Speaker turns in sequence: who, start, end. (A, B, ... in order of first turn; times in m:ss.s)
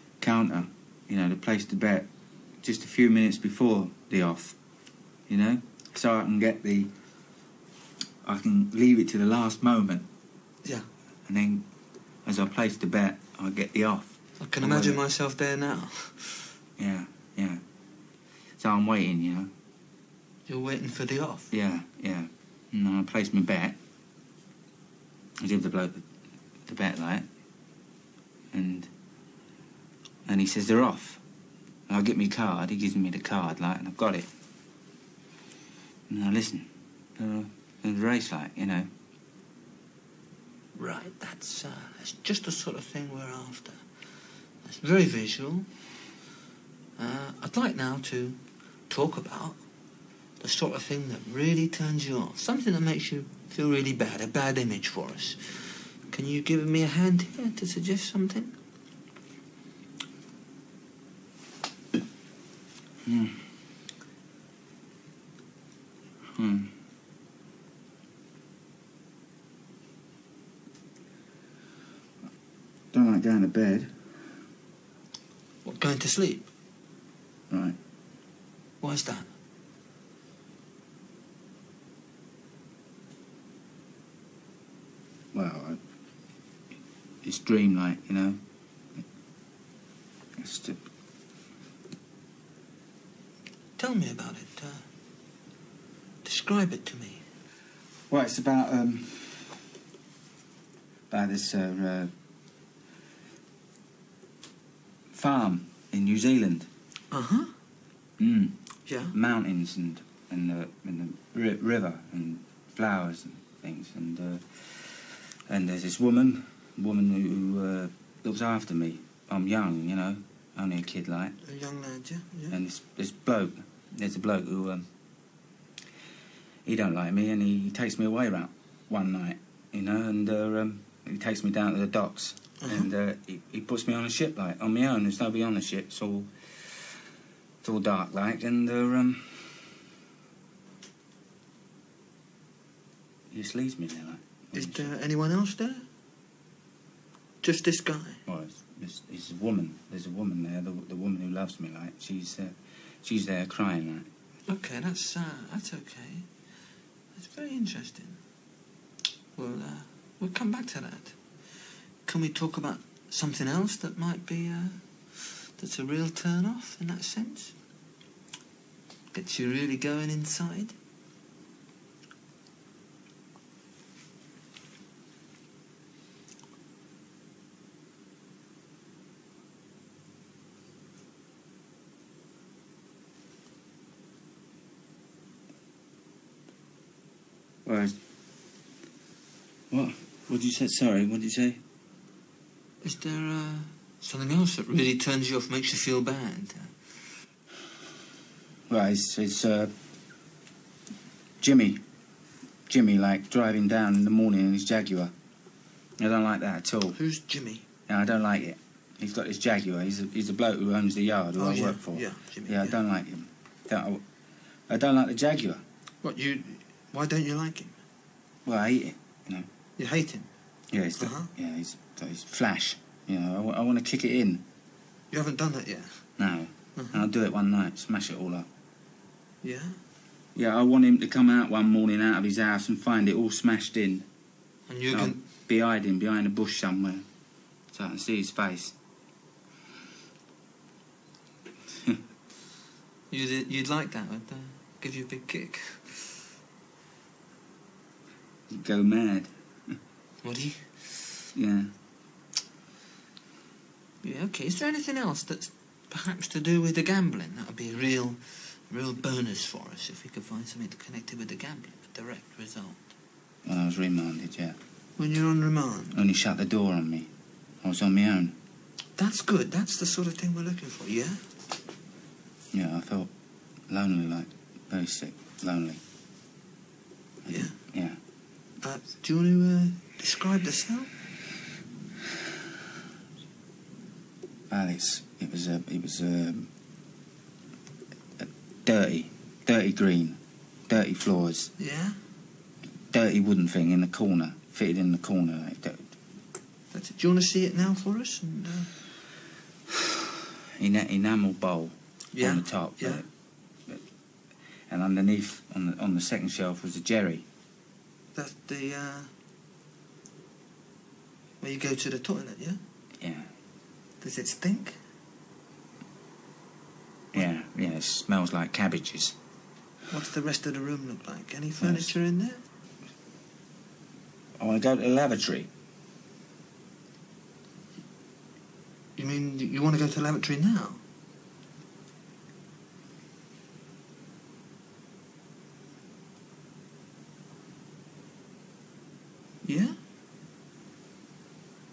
0:00.2-0:02.1 A
0:02.6-0:04.6 A
0:05.3-0:06.9 A
0:08.2-0:10.0 A
0:11.2-0:11.6 A
0:12.2-0:15.0 A
0:14.4-0:16.5 B
0:16.8-0:17.6 A
0:18.6-0:19.5 A
0:20.5-0:21.5 B
0:21.5-0:23.8 A
0:25.4-0:26.0 A
0:26.6-0:27.2 A
0:28.5-0:28.9 A
0:30.2-0:31.2 A
0:31.9-0:34.3 A
0:36.1-0:38.9 A
0:40.7-0:43.9 B
0:44.6-0:45.7 B
0:47.0-0:49.6 B
0:50.4-0:58.5 B
1:03.0-1:03.4 A
1:06.3-1:06.7 A
1:12.9-1:14.1 A
1:15.6-1:16.5 B
1:17.5-1:17.8 A
1:18.8-1:19.3 B
1:25.3-1:25.8 A
1:27.2-1:28.4 A
1:30.4-1:30.8 A
1:33.8-1:34.8 B
1:36.2-1:37.2 B
1:38.1-1:39.6 A
1:41.1-1:42.1 A
1:45.1-1:46.7 A
1:47.1-1:47.5 B
1:48.2-1:48.6 A
1:48.8-1:49.1 B
1:49.1-2:01.4 A
2:01.4-2:02.6 B
2:02.5-2:04.9 A
2:06.6-2:16.9 A
2:12.6-2:12.9 B
2:17.6-2:19.7 A
2:23.3-2:24.9 A
2:24.5-2:25.8 B
2:27.4-2:28.2 B
2:28.2-2:34.1 A
2:34.5-2:36.3 B
2:37.1-2:38.2 B
2:39.4-2:41.2 B
2:42.0-2:47.5 B
2:49.1-2:50.7 B
3:07.6-3:07.9 A
3:09.7-3:11.6 A
3:12.8-3:16.8 B
3:18.7-3:19.7 A
3:21.4-3:21.8 A
3:22.7-3:25.1 A
3:26.0-3:27.0 A
3:26.9-3:27.6 B
3:27.9-3:34.0 A
3:31.4-3:32.8 B
3:34.7-3:35.6 A
3:36.0-3:37.8 B
3:38.4-3:39.5 A
3:39.8-3:40.3 B
3:40.7-3:44.4 A
3:41.0-3:41.3 B
3:45.1-3:46.1 B
3:46.2-3:48.5 A
3:46.8-3:47.0 B
3:49.4-3:49.8 B
3:50.3-3:54.0 A
3:54.7-3:55.2 B
3:54.9-3:57.0 A
3:57.7-3:58.8 A
4:03.1-4:06.1 B
4:08.5-4:09.8 A
4:10.2-4:11.2 B
4:11.3-4:11.7 A
4:14.0-4:22.8 B
4:23.4-4:24.6 A
4:25.0-4:26.0 B
4:25.9-4:27.1 A
4:27.6-4:28.4 A
4:29.0-4:31.2 B
4:32.5-4:33.1 A
4:33.7-4:35.8 A
4:37.2-4:38.0 A
4:37.2-4:37.6 B
4:38.6-4:40.9 B
4:44.5-4:46.5 A
4:48.2-4:51.5 A
4:51.6-4:52.0 B
4:52.9-4:56.0 A
4:56.7-4:58.7 B
5:00.6-5:03.0 A
5:02.1-5:03.0 B
5:04.7-5:07.2 A
5:08.1-5:09.1 B
5:11.4-5:12.6 B
5:13.0-5:13.3 A
5:14.0-5:14.8 B
5:17.1-5:19.2 A
5:19.9-5:22.4 B
5:21.6-5:21.9 A
5:24.4-5:25.5 A
5:29.0-5:30.8 B
5:39.4-5:39.8 B